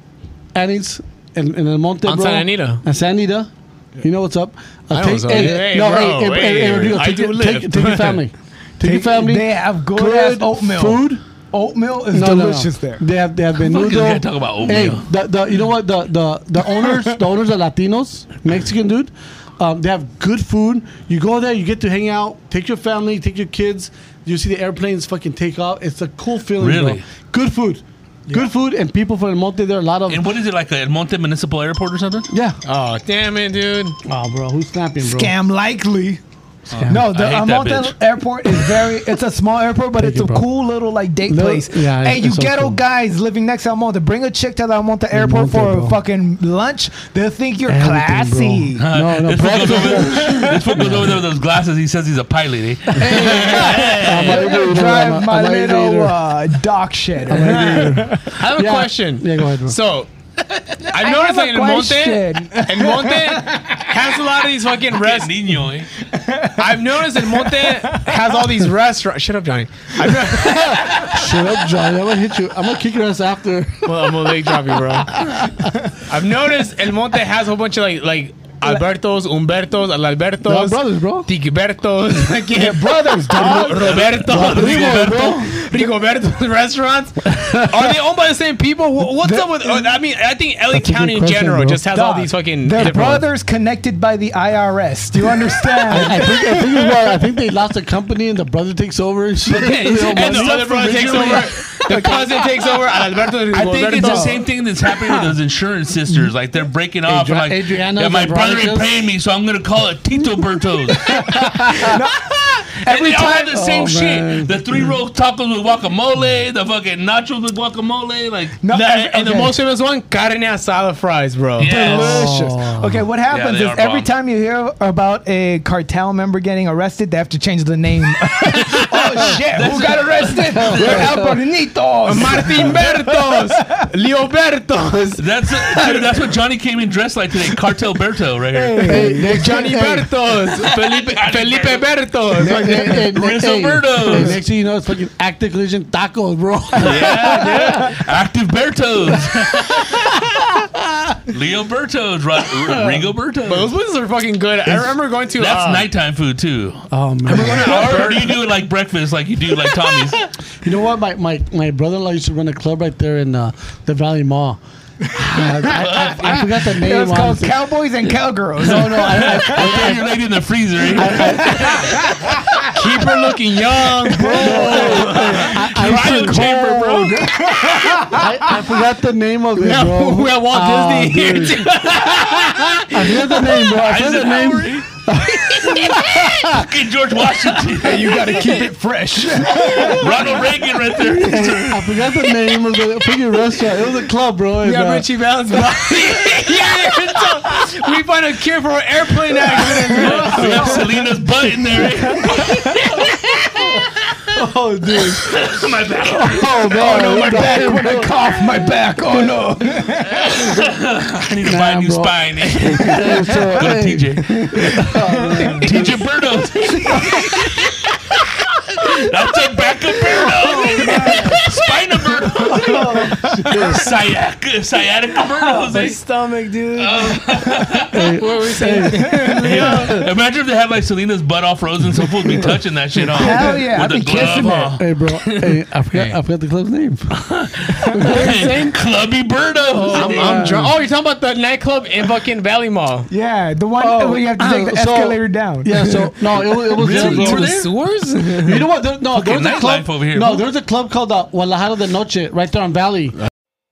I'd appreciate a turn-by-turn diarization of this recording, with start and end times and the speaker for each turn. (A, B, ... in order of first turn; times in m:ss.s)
0:00.6-0:03.5 A
0:02.0-0:02.8 B
0:04.0-0:11.2 A
0:04.9-0:08.2 B
0:08.8-0:13.0 C
0:12.1-0:30.2 A
0:13.6-0:15.1 D
0:26.6-0:27.0 D
0:30.1-0:32.3 D
0:32.3-0:32.6 A
0:32.6-0:34.0 B
0:34.1-0:35.3 A
0:35.0-0:36.2 C
0:36.7-0:38.0 D
0:36.7-0:37.0 A
0:36.8-0:48.8 C
0:40.0-0:40.5 A
0:41.2-0:42.8 A
0:45.1-0:46.0 A
0:47.7-0:51.2 A
0:48.8-0:54.5 D
0:50.2-0:50.9 C
0:53.0-0:56.2 A
0:53.0-0:54.0 B
0:54.1-0:58.3 C
0:57.3-0:59.8 A
0:57.4-1:00.1 B
1:00.8-1:05.3 B
1:00.9-1:03.7 C
1:04.9-1:05.9 D
1:06.0-1:08.2 C
1:06.6-1:11.1 B
1:10.3-1:14.3 A
1:13.8-1:15.1 B
1:15.1-1:15.7 A
1:16.1-1:33.3 B
1:20.4-1:21.3 A
1:22.5-1:24.0 C
1:23.4-1:25.5 D
1:24.2-1:25.6 A
1:27.3-1:27.8 A
1:29.2-1:29.9 C
1:30.7-1:31.8 A
1:31.9-1:36.9 C
1:35.9-1:41.5 A
1:39.5-1:42.2 D
1:40.1-1:44.4 B
1:43.5-1:52.0 D
1:44.0-1:44.4 C
1:47.1-1:48.9 A
1:51.1-1:53.6 C
1:51.2-1:52.0 A
1:52.7-1:58.6 D
1:53.5-1:55.0 A
1:58.6-1:59.6 C
1:58.7-2:01.8 B
2:01.6-2:02.3 D
2:01.7-2:13.9 C
2:01.9-2:03.1 A
2:03.3-2:04.1 D
2:08.5-2:11.2 D
2:10.4-2:11.4 A
2:12.0-2:16.0 B
2:15.2-2:19.1 D
2:18.5-2:19.6 C
2:18.8-2:20.1 A
2:19.1-2:22.9 B
2:20.7-2:21.9 D
2:22.4-2:23.1 C
2:22.4-2:27.6 A
2:23.0-2:24.4 D
2:26.8-2:28.0 B
2:26.8-2:30.3 D
2:29.7-2:31.2 A
2:31.3-2:33.7 D
2:33.5-2:35.9 B
2:35.4-2:40.3 D
2:36.9-2:38.0 A
2:37.3-2:38.4 B
2:40.6-2:44.6 A
2:45.1-2:47.7 A
2:45.4-2:50.0 C
2:45.6-2:46.5 D
2:48.6-2:52.4 D
2:48.6-2:50.1 A
2:50.9-2:51.9 A
2:51.0-2:52.7 C
2:52.7-2:55.6 B
2:54.1-2:55.1 C
2:54.2-3:01.8 A
2:54.8-2:57.5 D
2:57.5-2:58.3 C
2:59.6-3:02.8 B
3:01.9-3:08.6 D
3:02.8-3:06.7 A
3:07.8-3:10.2 C
3:09.5-3:12.0 D
3:09.8-3:10.0 B
3:11.0-3:15.1 A
3:14.6-3:20.8 B
3:19.6-3:20.4 C
3:20.0-3:20.8 A
3:20.0-3:24.0 D
3:24.3-3:25.3 A
3:25.0-3:27.0 D
3:26.0-3:28.4 A
3:26.6-3:30.6 C
3:29.0-3:29.3 A
3:30.1-3:34.8 D
3:31.4-3:35.9 A
3:35.3-3:36.0 B
3:35.6-3:38.0 D
3:38.7-3:46.0 D
3:40.4-3:41.4 B
3:40.9-3:41.2 C
3:40.9-3:41.4 A
3:42.5-3:43.9 A
3:42.6-3:43.5 C
3:45.3-3:50.1 B
3:46.8-3:48.1 D
3:47.9-3:50.1 A
3:49.0-3:49.8 C
3:49.4-3:54.8 D
3:53.1-3:54.8 C
3:54.4-3:57.1 A
3:55.1-3:56.2 B
3:57.2-4:00.6 D
3:57.9-3:58.3 A
3:58.0-3:58.8 B
3:59.8-4:00.7 A
3:59.8-4:03.1 B
4:03.1-4:06.1 C
4:03.8-4:07.7 A
4:06.7-4:08.6 B
4:06.8-4:07.6 D
4:08.4-4:13.2 A
4:09.1-4:10.4 D